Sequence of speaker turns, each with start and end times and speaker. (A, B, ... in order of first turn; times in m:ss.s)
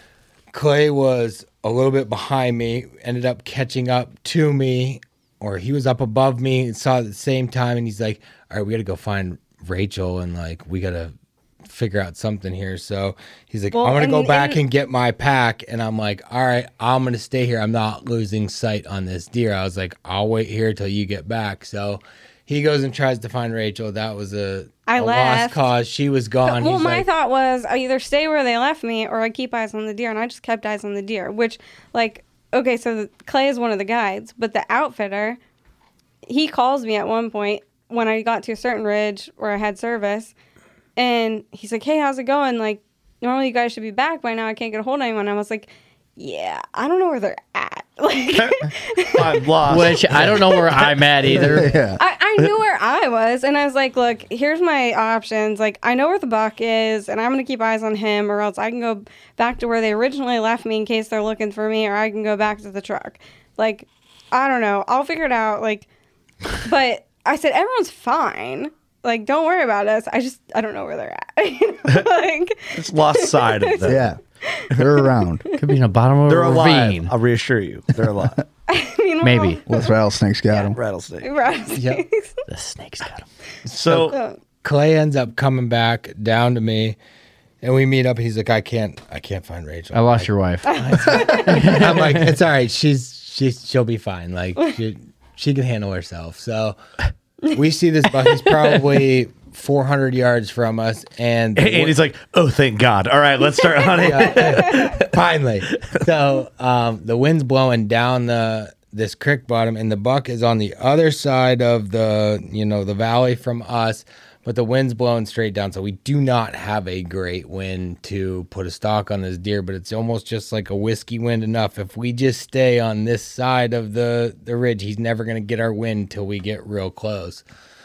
0:00.5-0:11.1 A
0:11.6-0:27.1 A
0:13.7-0:14.6 B
0:24.9-0:25.7 B
0:26.4-0:35.4 B
0:36.3-0:40.3 B
0:41.0-0:49.8 B
0:49.1-0:51.5 C
0:49.6-0:51.7 D
0:51.3-0:52.0 E
0:52.0-1:05.9 B
1:06.6-1:14.0 B
1:12.7-1:14.0 C
1:13.9-1:14.2 E
1:14.7-1:15.4 E
1:15.6-1:17.1 D
1:16.3-1:18.4 C
1:18.7-1:19.8 B
1:19.2-1:19.6 D
1:19.7-1:20.8 E
1:20.7-1:21.3 C
1:21.2-1:22.4 B
1:21.7-1:22.0 A
1:22.5-1:23.2 D
1:23.6-1:24.2 C
1:24.1-1:24.4 B
1:24.6-1:27.0 A
1:27.6-1:36.8 A
1:29.9-1:32.3 D
1:30.6-1:31.8 B
1:37.5-1:41.9 A
1:38.2-1:38.5 B
1:41.6-1:45.1 C
1:43.6-1:45.0 B
1:43.9-2:07.4 A